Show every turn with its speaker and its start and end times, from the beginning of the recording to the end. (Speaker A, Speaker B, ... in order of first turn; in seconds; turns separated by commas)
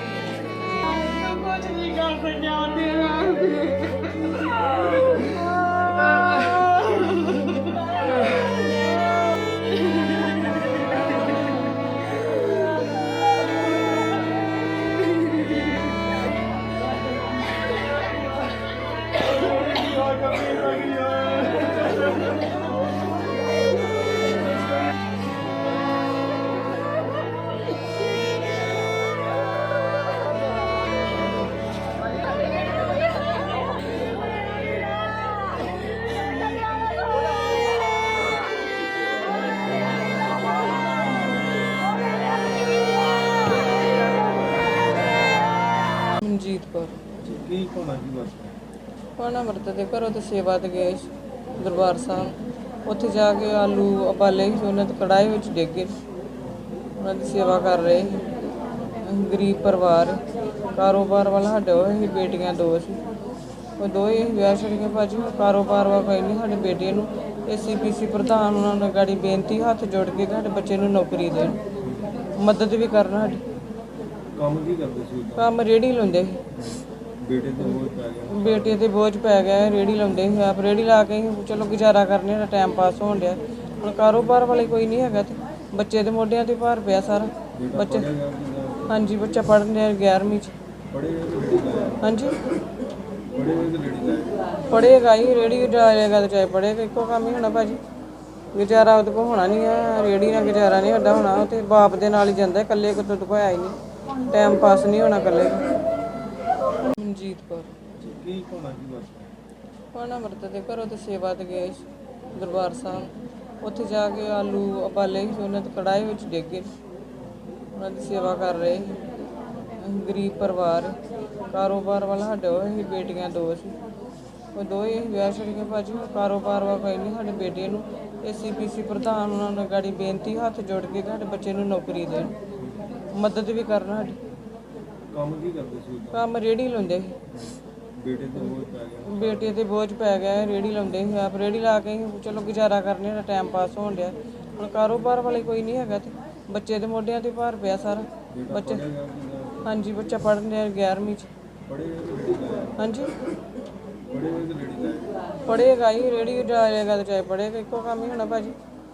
Speaker A: 0.8-3.9, Speaker A: 6.3-6.7, Speaker B: 46.2-47.0, Speaker C: 47.2-48.6, Speaker B: 49.2-52.4, Speaker B: 52.9-55.9, Speaker B: 57.0-58.2, Speaker B: 59.0-63.0, Speaker B: 63.8-71.6, Speaker C: 71.8-72.1, Speaker B: 72.4-73.4, Speaker C: 74.3-75.5, Speaker B: 75.4-76.4, Speaker C: 76.7-78.8, Speaker B: 78.3-88.1, Speaker C: 87.5-89.2, Speaker B: 88.9-90.5, Speaker C: 90.9-92.0, Speaker B: 92.0-92.4, Speaker C: 93.3-94.4, Speaker B: 94.7-97.8, Speaker B: 98.5-105.6, Speaker B: 106.9-107.7, Speaker C: 108.0-109.3, Speaker B: 109.9-113.1, Speaker B: 113.6-116.7, Speaker B: 117.7-119.0, Speaker B: 119.8-121.0, Speaker B: 121.5-123.8, Speaker B: 124.5-132.3, Speaker C: 132.6-132.9, Speaker B: 133.1-134.2, Speaker C: 135.1-136.3, Speaker B: 136.1-137.2, Speaker C: 137.4-139.6, Speaker B: 139.1-148.8, Speaker C: 148.3-149.7, Speaker B: 149.6-151.3, Speaker C: 151.7-152.8, Speaker B: 152.8-153.1, Speaker C: 154.1-155.1, Speaker B: 155.5-158.6